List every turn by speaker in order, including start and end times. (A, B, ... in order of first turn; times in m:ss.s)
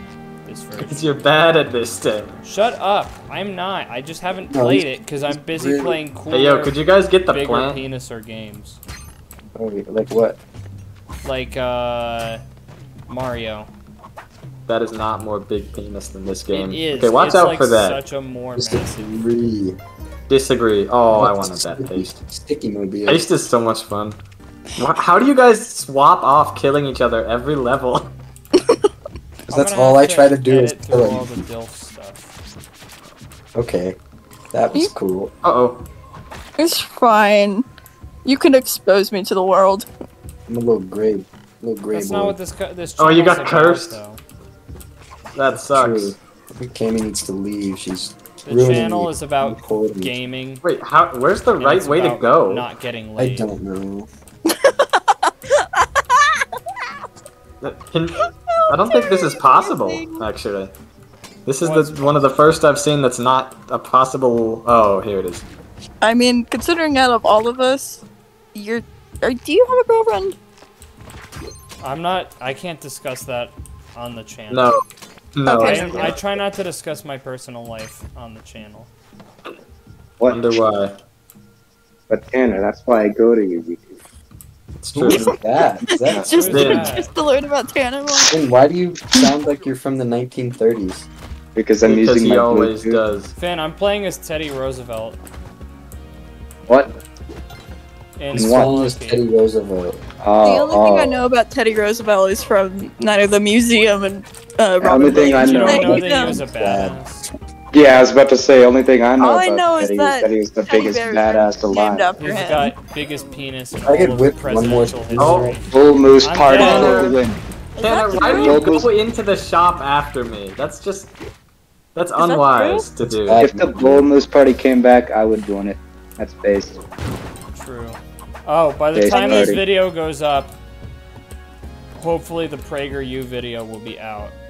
0:00.4-0:01.0 A
0:00.8-0:02.4 B
0:02.4-0:06.8 A
0:04.5-0:06.0 C
0:06.3-0:07.8 B
0:07.3-0:08.8 A
0:09.6-0:10.4 C
0:11.2-0:12.4 A
0:13.1-0:13.7 A
0:14.7-0:18.0 B
0:16.5-0:19.1 A
0:18.6-0:19.8 C
0:20.3-0:22.1 B
0:21.1-0:23.3 C
0:23.1-0:24.2 B
0:24.8-0:28.1 B
0:28.6-0:28.9 D
0:29.5-0:32.3 A
0:29.5-0:31.4 C
0:33.6-0:34.0 C
0:34.5-0:35.3 C
0:35.4-0:35.8 B
0:36.6-0:37.6 D
0:38.2-0:39.9 D
0:40.5-0:42.4 C
0:41.9-0:44.2 A
0:43.0-0:44.0 B
0:45.3-0:46.2 B
0:45.5-0:50.2 C
0:48.4-0:50.6 A
0:50.6-0:52.7 B
0:51.6-0:53.5 A
0:53.2-0:54.1 C
0:54.5-0:56.5 D
0:57.6-1:00.7 B
0:58.2-1:00.2 D
1:01.5-1:05.5 B
1:01.6-1:02.3 A
1:06.0-1:10.4 D
1:11.8-1:14.8 A
1:14.5-1:14.8 B
1:15.4-1:16.1 B
1:15.5-1:16.1 D
1:15.6-1:18.9 A
1:20.2-1:20.6 E
1:20.3-1:21.0 B
1:22.1-1:23.9 E
1:24.8-1:25.3 B
1:24.9-1:26.8 C
1:25.1-1:25.4 D
1:25.9-1:28.4 D
1:26.0-1:26.5 E
1:26.3-1:27.1 A
1:26.5-1:26.9 B
1:28.2-1:31.1 C
1:31.6-1:33.0 E
1:31.8-1:33.4 B
1:33.4-1:35.2 A
1:36.7-1:37.0 E
1:38.2-1:39.2 A
1:38.3-1:38.7 E
1:38.3-1:40.0 C
1:40.2-1:41.2 E
1:40.4-1:46.4 D
1:44.8-1:46.0 E
1:45.1-1:47.3 A
1:45.7-1:47.0 C
1:47.7-1:52.1 E
1:49.2-1:52.8 D
1:52.2-1:55.7 A
1:53.8-1:55.6 C
1:55.2-1:55.6 B
1:55.7-1:57.4 E
1:56.2-1:57.2 A
1:56.6-1:57.1 D
1:56.6-1:57.1 C
1:57.8-1:58.7 D
1:57.8-2:01.1 B
1:58.1-1:58.9 E
2:02.0-2:03.4 B
2:02.2-2:02.9 D
2:03.1-2:04.1 C
2:03.4-2:06.8 E
2:07.5-2:10.6 A
2:08.9-2:09.6 E
2:09.1-2:09.6 D
2:12.0-2:14.4 A